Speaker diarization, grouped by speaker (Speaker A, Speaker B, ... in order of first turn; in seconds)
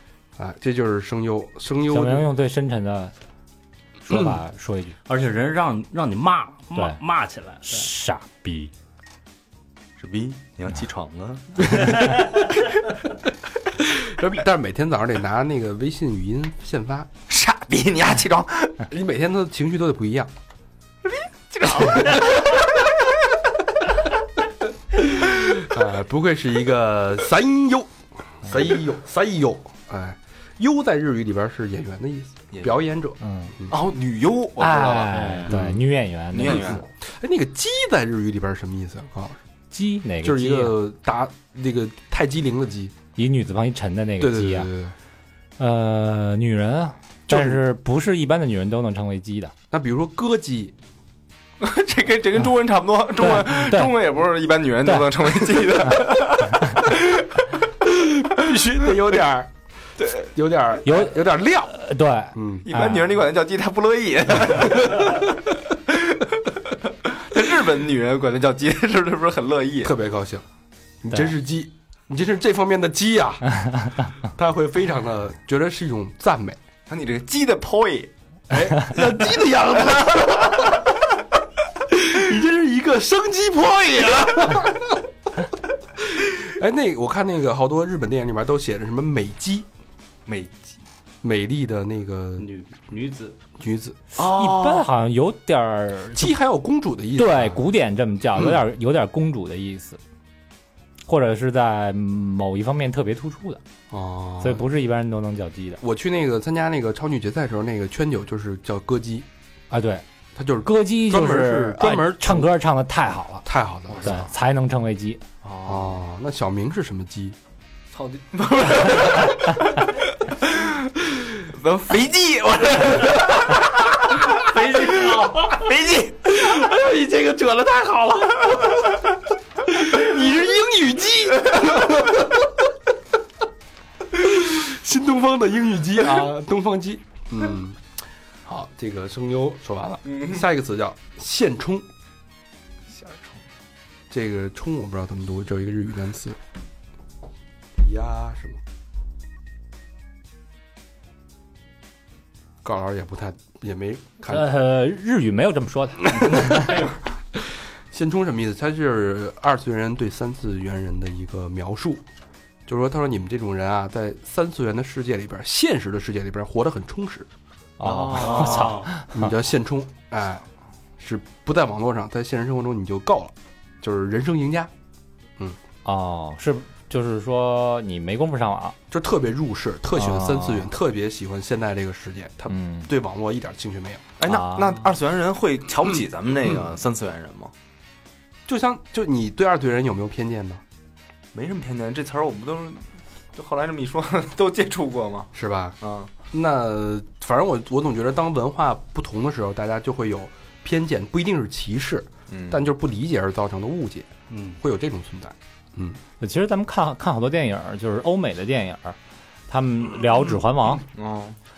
Speaker A: 0.4-2.3, 13.8-17.1, 18.9-20.3, 21.9-22.1, 24.9-33.7, 35.5-35.8, 36.8-39.4, 40.2-42.9, 44.2-44.9, 47.3-47.6, 49.7-50.7, 57.9-59.5, 60.2-61.7, 62.3-62.6, 64.7-65.2, 69.8-70.4, 71.0-73.6, 74.2-76.6, 78.5-80.9, 81.9-85.0, 86.0-89.7, 91.2-92.5, 93.6-94.0, 96.1-97.6, 103.9-104.6, 105.8-109.3, 110.4-112.5, 113.4-114.3, 115.6-117.4, 126.3-128.9, 129.7-132.7, 134.1-137.8, 138.4-141.9, 144.1-146.4, 147.8-148.6, 152.6-154.5, 156.1-162.0, 162.7-167.3, 169.1-170.4, 171.0-174.7, 178.9-184.1, 188.4-190.6, 195.3-195.8, 196.3-206.0
Speaker B: 1.9-3.1, 4.0-5.0, 6.7-7.0, 7.6-8.7, 33.2-33.5, 34.6-36.8, 39.7-40.8, 43.1-44.7, 45.6-49.5, 53.2-53.9, 54.8-55.1, 56.5-56.9, 60.8-63.1, 94.2-96.3, 97.2-100.0, 101.1-103.6, 104.4-105.8, 109.7-110.0, 110.6-113.5, 114.0-115.2, 154.3-156.9, 167.8-169.3, 175.8-178.8, 179.9-180.7, 182.5-182.9, 184.2-184.9, 206.2-209.0, 209.5-210.8
Speaker C: 5.1-7.9, 35.1-35.5, 92.4-93.4, 124.5-125.5, 168.2-168.9, 204.3-204.6
Speaker D: 10.0-12.4, 17.3-18.9, 21.0-23.1, 32.5-32.8, 33.7-35.3, 36.3-36.8, 51.6-57.4, 60.0-60.3, 62.6-65.3, 65.9-70.0, 76.9-78.1, 90.3-90.8, 94.2-94.9, 113.9-114.2, 115.4-116.0, 117.9-126.4, 140.1-140.4, 142.9-143.4, 167.8-168.8, 184.2-187.5, 191.3-196.1, 202.3-202.6, 210.9-211.4